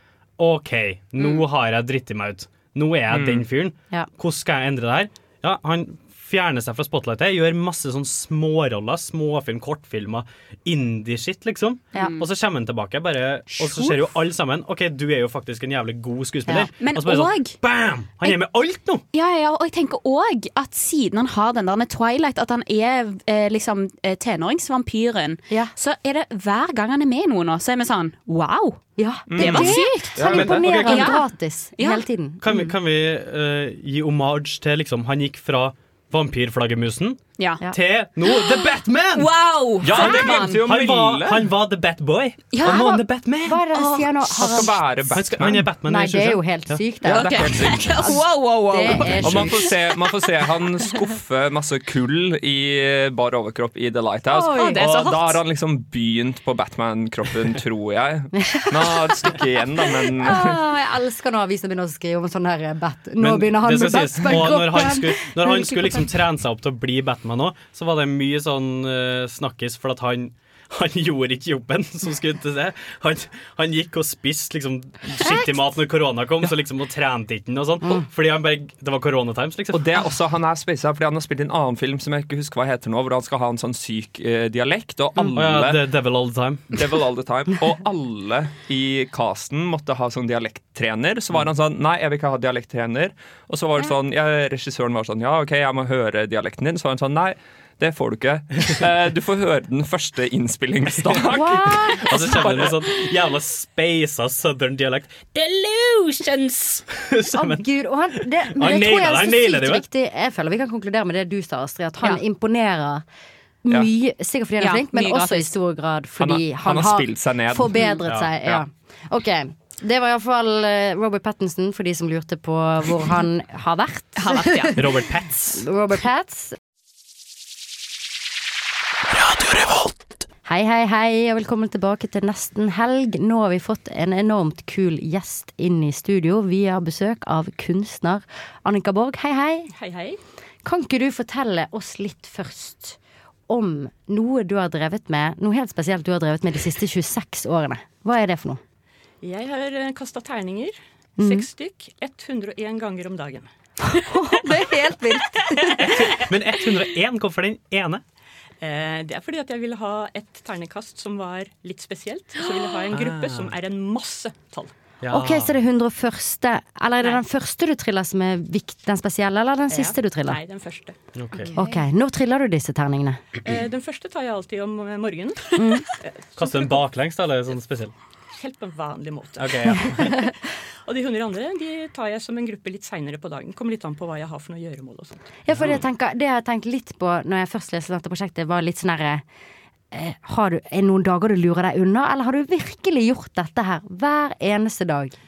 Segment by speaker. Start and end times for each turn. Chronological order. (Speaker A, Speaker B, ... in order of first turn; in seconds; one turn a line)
Speaker A: 0.4-19.0
Speaker B: 3.1-3.5
Speaker C: 11.9-12.2
Speaker D: 13.6-13.9
Speaker C: 16.8-17.6
Speaker C: 19.1-28.8
Speaker D: 29.0-32.7
Speaker B: 29.3-29.8
Speaker C: 29.3-31.2
Speaker A: 30.2-31.1
Speaker C: 31.8-32.0
Speaker A: 32.4-37.2
Speaker A: 37.7-39.3
Speaker C: 38.2-38.5
Speaker C: 39.1-40.6
Speaker B: 39.8-41.5
Speaker A: 39.9-43.6
Speaker C: 42.5-42.8
Speaker D: 42.6-44.8
Speaker B: 44.3-45.7
Speaker A: 45.1-46.8
Speaker D: 45.8-49.7
Speaker C: 47.0-49.7
Speaker B: 47.0-48.2
Speaker B: 49.2-60.6
Speaker C: 54.3-55.4
Speaker D: 54.4-54.8
Speaker D: 58.4-66.1
Speaker A: 63.2-80.0
Speaker B: 79.7-85.8
Speaker A: 85.3-86.8
Speaker B: 86.7-102.8
Speaker D: 101.3-102.2
Speaker A: 101.8-105.3
Speaker C: 105.3-106.8
Speaker A: 106.9-109.8
Speaker D: 107.3-113.0
Speaker D: 113.6-125.0
Speaker C: 114.6-115.5
Speaker B: 116.2-118.6
Speaker C: 124.2-124.8
Speaker A: 124.8-125.7
Speaker D: 125.5-126.5
Speaker A: 129.2-129.9
Speaker D: 130.4-139.7
Speaker E: 139.7-140.2
Speaker D: 140.6-148.6
Speaker E: 149.2-153.5
Speaker D: 151.2-151.5
Speaker D: 153.9-155.7
Speaker A: 155.8-158.0
Speaker E: 158.6-164.7
Speaker A: 162.9-163.5
Speaker A: 165.0-165.5
Speaker D: 165.1-170.4
Speaker E: 169.7-171.6
Speaker A: 171.2-171.5
Speaker D: 171.5-173.2
Speaker E: 173.4-176.8
Speaker D: 175.6-175.9
Speaker A: 176.4-177.9
Speaker E: 178.3-180.2
Speaker A: 179.4-180.2
Speaker E: 180.8-185.3
Speaker D: 185.4-189.2
Speaker A: 185.5-185.8
Speaker D: 189.9-195.1